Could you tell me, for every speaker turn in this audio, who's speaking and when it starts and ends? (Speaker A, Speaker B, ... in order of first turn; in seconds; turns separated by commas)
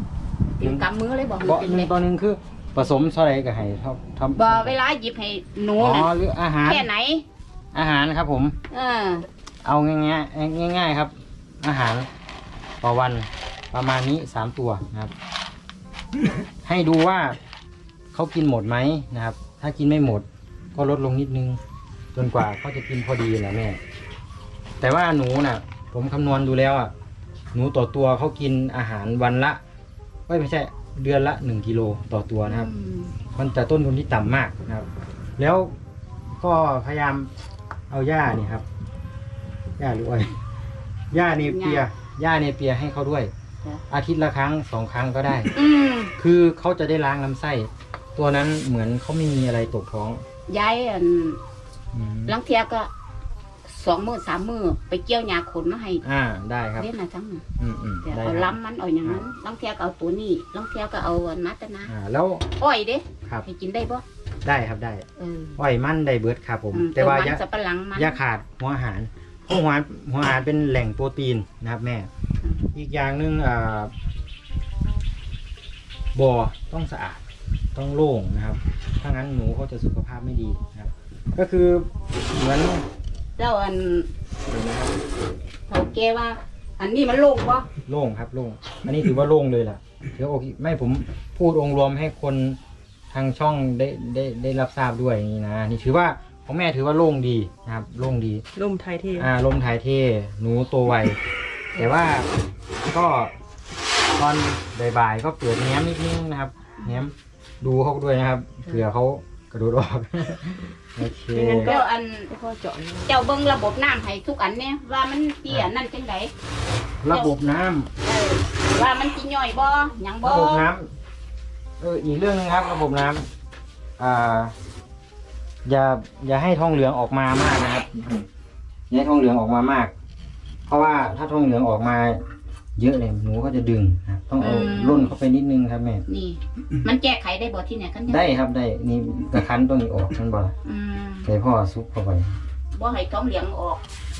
Speaker A: 0.6-1.9, Speaker B: 1.4-4.8, Speaker A: 4.3-7.2, Speaker B: 5.8-6.9, Speaker B: 7.7-8.6, Speaker A: 8.7-9.3, Speaker B: 9.6-12.1, Speaker B: 12.8-15.1, Speaker B: 16.6-17.4, Speaker B: 18.1-21.6, Speaker B: 22.1-23.8, Speaker B: 24.8-26.9, Speaker B: 27.5-29.6, Speaker B: 30.3-32.7, Speaker A: 32.5-33.2, Speaker B: 33.3-34.9, Speaker B: 35.4-35.7, Speaker B: 36.3-37.3, Speaker B: 37.9-38.6, Speaker B: 39.8-40.3, Speaker B: 41.1-43.3, Speaker A: 41.2-41.9, Speaker B: 43.9-45.5, Speaker A: 45.5-46.1, Speaker B: 46.2-50.2, Speaker A: 50.5-51.4, Speaker B: 51.9-52.4, Speaker A: 52.3-52.9, Speaker A: 53.6-56.0, Speaker B: 56.0-56.9, Speaker A: 56.8-57.4, Speaker B: 57.6-58.5, Speaker A: 58.0-61.9, Speaker B: 61.9-62.5, Speaker A: 62.6-64.0, Speaker B: 64.4-65.0, Speaker A: 65.2-65.6, Speaker B: 65.6-67.4, Speaker A: 66.7-68.2, Speaker B: 67.9-72.1, Speaker B: 72.7-73.9, Speaker B: 76.1-77.2, Speaker B: 77.7-82.8, Speaker A: 83.4-84.1, Speaker B: 84.5-85.0, Speaker A: 85.7-87.7, Speaker B: 87.9-92.6, Speaker B: 93.1-98.4, Speaker C: 98.5-99.3, Speaker B: 99.1-101.2, Speaker B: 101.7-102.3, Speaker B: 102.8-103.3, Speaker B: 104.1-111.7, Speaker C: 111.3-113.2, Speaker A: 111.6-112.3, Speaker A: 113.0-116.3, Speaker B: 117.0-117.9, Speaker A: 117.1-117.3, Speaker A: 118.0-120.7, Speaker B: 120.2-120.9, Speaker B: 121.8-123.3, Speaker B: 124.0-124.5, Speaker B: 125.6-128.2, Speaker B: 128.9-129.9, Speaker B: 130.7-132.2, Speaker B: 132.8-136.0, Speaker A: 134.4-135.2, Speaker A: 136.1-138.3, Speaker B: 138.1-140.5, Speaker A: 140.6-141.3, Speaker B: 141.2-142.4, Speaker A: 142.7-143.8